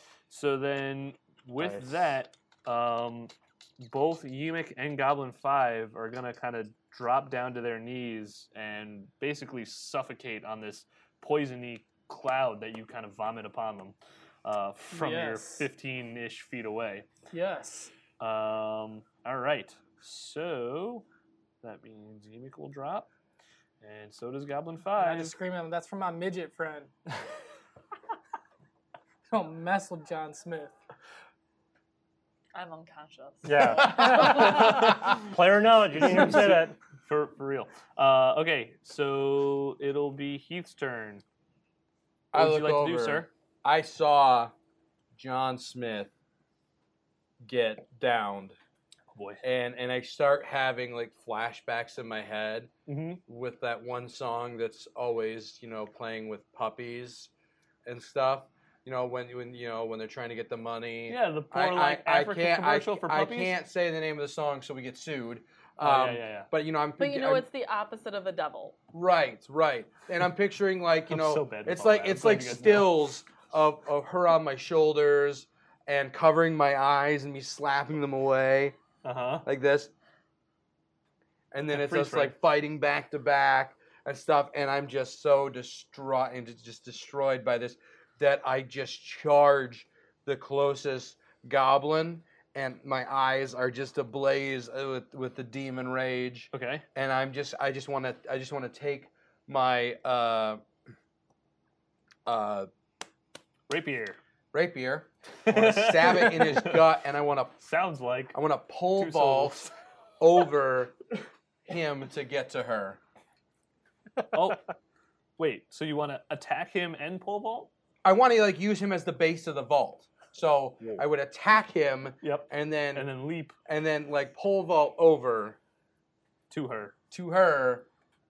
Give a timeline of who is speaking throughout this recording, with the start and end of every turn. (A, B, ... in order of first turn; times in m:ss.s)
0:00.3-0:17.1 A
0:01.6-0:02.1 B
0:14.9-0:15.7 C
0:17.3-0:17.9 C
0:18.2-0:21.0 A
0:21.6-0:23.1 A
0:23.8-0:25.4 A
0:25.0-0:26.9 C
0:29.3-0:30.8 C
0:32.5-0:34.3 D
0:33.4-0:36.8 B
0:33.8-0:35.2 A
0:36.0-0:41.2 A
0:42.3-0:44.5 E
0:42.3-0:43.3 A
0:45.2-0:46.1 E
0:47.4-0:48.6 E
0:49.1-0:49.4 A
0:49.4-0:52.7 E
0:52.9-0:53.2 A
0:53.3-0:57.3 E
0:57.9-1:07.4 E
1:01.1-1:03.6 A
1:05.8-1:06.5 A
1:07.0-1:08.8 D
1:08.9-1:18.8 E
1:11.1-1:13.0 A
1:19.0-1:19.5 A
1:19.4-1:19.9 E
1:21.5-1:40.6 E
1:21.7-1:22.4 A
1:36.5-1:36.8 A
1:42.3-1:42.7 E
1:43.7-1:44.2 A
1:44.5-1:47.6 E
1:45.5-1:46.8 A
1:47.6-1:48.4 A
1:48.3-1:49.7 E
1:49.0-1:49.7 A
1:50.2-1:51.0 E
1:51.7-1:53.0 E
1:54.3-1:54.7 A
1:55.4-1:57.7 A
1:58.0-2:03.1 E
2:02.2-2:03.6 A
2:03.7-2:05.6 E
2:06.5-2:07.0 A
2:07.1-2:07.9 E